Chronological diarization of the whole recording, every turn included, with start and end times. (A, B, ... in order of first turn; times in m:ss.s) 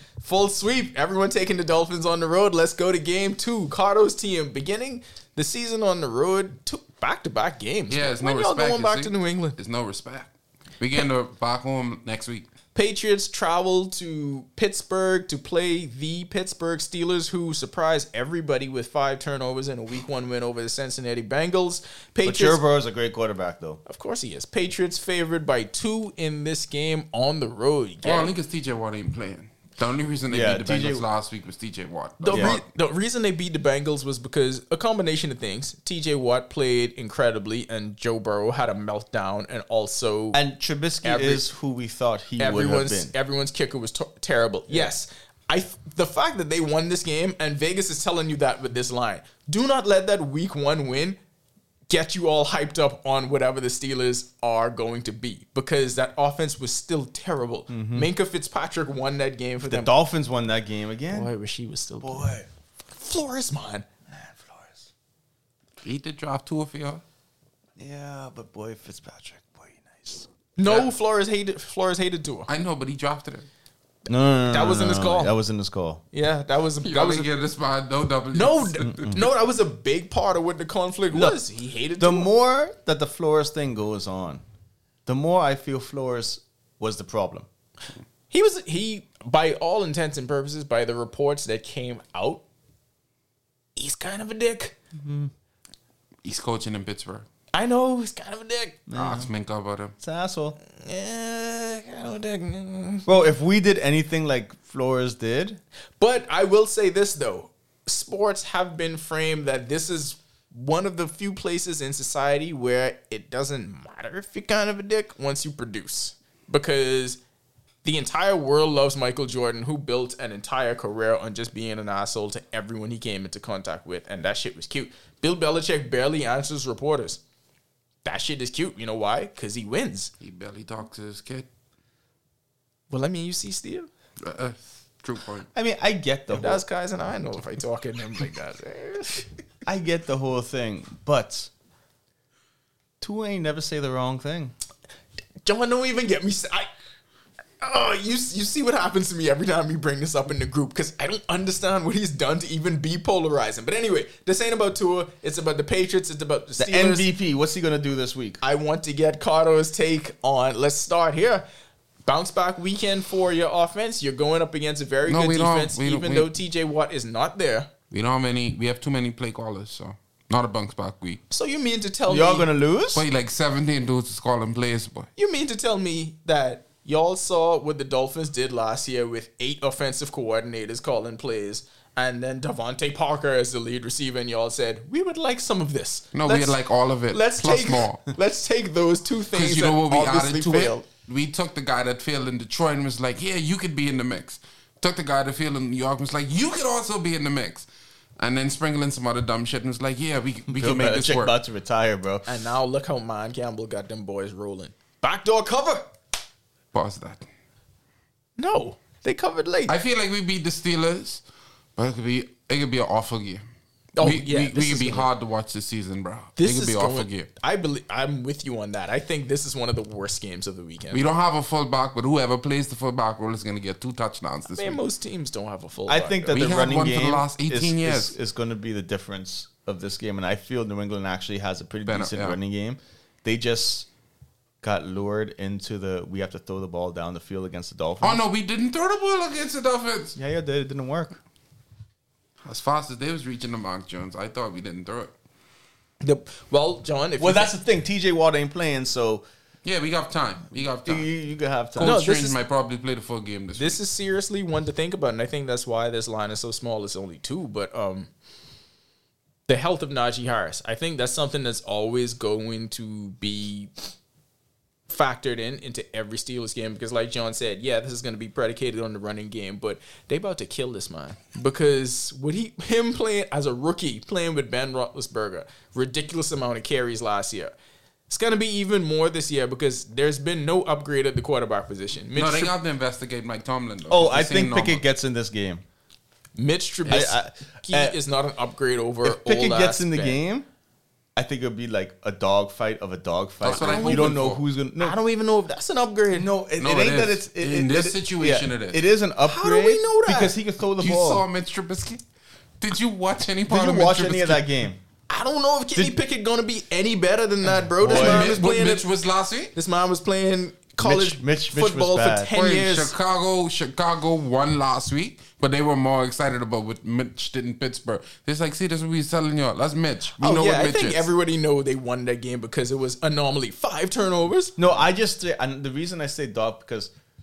0:00.2-0:09.6 A
0:07.9-0:12.5 B
0:12.7-0:22.6 A
0:22.2-0:23.8 C
0:23.9-0:28.3 A
0:28.0-0:32.6 B
0:30.3-0:31.1 C
0:32.2-0:40.4 A
0:32.3-0:32.6 C
0:40.3-0:43.1 C
0:41.0-0:41.5 A
0:42.4-0:51.2 A
0:51.9-0:59.9 A
0:57.7-0:58.1 C
0:59.7-1:01.3 C
1:01.1-1:02.4 A
1:02.0-1:02.5 C
1:02.9-1:03.9 A
1:04.1-1:04.9 C
1:05.8-1:07.0 B
1:07.8-1:10.3 C
1:10.6-1:12.5 A
1:12.5-1:13.5 B
1:14.1-1:16.0 C
1:14.5-1:15.3 A
1:16.1-1:17.3 A
1:16.8-1:19.2 B
1:18.3-1:22.3 A
1:18.9-1:19.3 C
1:21.1-1:21.4 C
1:22.0-1:24.4 C
1:25.1-1:27.5 C
1:28.3-1:32.4 A
1:33.8-1:34.7 A
1:34.9-1:35.3 C
1:36.2-1:37.3 B
1:37.5-1:38.8 A
1:38.9-1:39.3 C
1:39.0-1:39.9 B
1:40.0-1:40.6 C
1:40.7-1:43.1 A
1:43.1-1:45.6 C
1:46.0-1:57.2 A
1:57.8-2:07.2 A
2:08.0-2:10.1 A
2:10.2-2:11.5 B
2:12.9-2:13.9 A
2:14.2-2:15.5 B
2:15.5-2:16.6 C
2:16.3-2:19.3 A
2:19.7-2:21.5 C
2:23.0-2:24.5 C
2:25.4-2:26.7 A
2:27.6-2:37.1 A
2:36.6-2:38.4 C
2:38.4-2:41.5 A
2:42.1-2:47.7 A
2:45.1-2:46.3 B
2:47.9-2:51.2 B
2:51.3-2:52.5 A
2:52.1-2:53.0 C
2:52.9-2:55.1 B
2:55.2-3:06.6 A
3:06.1-3:08.1 B
3:07.1-3:10.9 A
3:09.3-3:17.7 B
3:18.2-3:21.3 B
3:20.5-3:22.3 C
3:22.3-3:25.9 A
3:26.7-3:27.3 B
3:28.4-3:29.7 A
3:29.7-3:31.2 B
3:31.8-3:33.4 B
3:34.0-3:35.1 A
3:34.0-3:37.3 B
3:36.4-3:41.0 A
3:40.9-3:44.8 B
3:44.5-3:46.4 A
3:45.9-3:53.9 C
3:46.3-3:48.1 B
3:51.9-3:52.4 B
3:54.6-3:58.2 C
3:58.0-4:00.2 B
4:00.2-4:01.2 C
4:02.4-4:05.1 B
4:06.0-4:07.5 A
4:07.2-4:09.2 C
4:09.6-4:11.1 B
4:10.8-4:12.1 C
4:11.7-4:13.8 B
4:11.8-4:12.4 A
4:13.6-4:18.1 A
4:19.5-4:23.7 A
4:24.9-4:37.5 A
4:38.1-4:42.6 A
4:42.1-4:44.8 B
4:43.9-4:45.6 C
4:46.4-4:50.2 A
4:46.9-4:48.0 C
4:49.0-4:50.5 C
4:51.2-4:55.0 C
4:53.4-4:54.4 B
4:53.5-4:54.2 A
4:54.8-4:56.3 A
4:56.1-5:01.2 C
4:56.6-4:58.8 B
4:59.2-5:00.4 A
5:00.8-5:02.0 B
5:02.6-5:04.5 B
5:03.5-5:04.8 C
5:05.1-5:08.8 A
5:07.8-5:08.4 C
5:07.8-5:09.5 B
5:09.6-5:12.9 A
5:10.8-5:12.3 C
5:12.3-5:21.1 B
5:20.2-5:24.6 A
5:24.6-5:26.9 C